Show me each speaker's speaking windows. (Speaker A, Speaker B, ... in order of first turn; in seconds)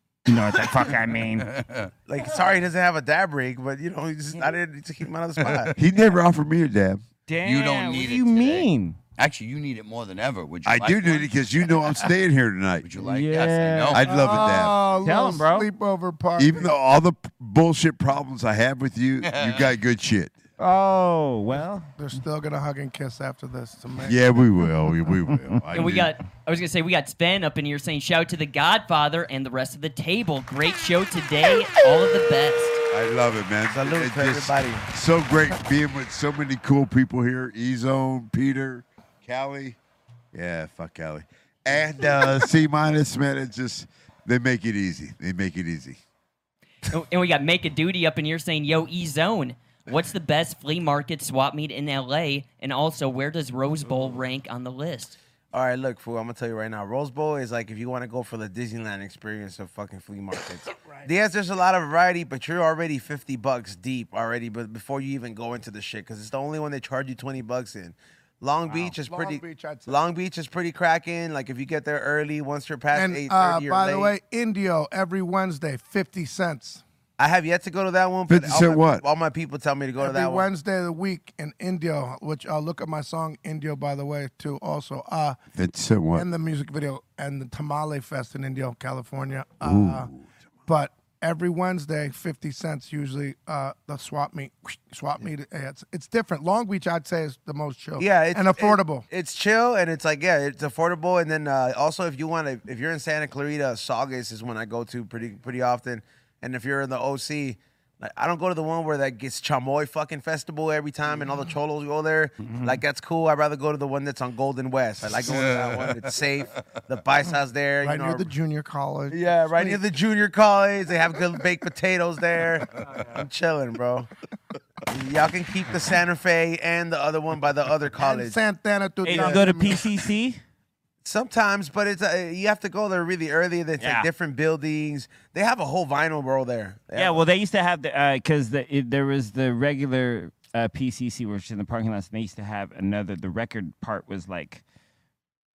Speaker A: 0.2-1.5, 7.3-9.0, 13.0-15.7, 20.6-21.9, 112.5-112.8, 129.0-130.4, 133.8-134.1, 136.9-144.6
Speaker B: 0.8-1.9, 5.4-5.7, 7.4-11.4, 12.8-14.1, 19.2-19.7, 115.2-116.1
Speaker C: 2.1-5.7, 33.6-34.9, 55.5-74.2, 77.2-80.5, 98.0-118.3, 119.1-124.1, 124.9-128.4, 129.1-129.6, 131.0-137.2
Speaker D: 5.7-7.0, 10.6-12.9, 13.9-14.8, 16.4-20.4, 24.0-26.1, 32.9-39.8, 40.3-46.0, 78.3-79.0, 85.5-86.3, 89.6-90.3
Speaker E: 14.0-16.7, 22.0-24.4, 60.8-61.1, 68.7-70.0, 72.9-76.8, 80.0-85.4, 86.1-90.1, 90.7-99.1, 117.8-119.8, 128.0-129.8
Speaker F: 25.7-32.8, 46.9-55.2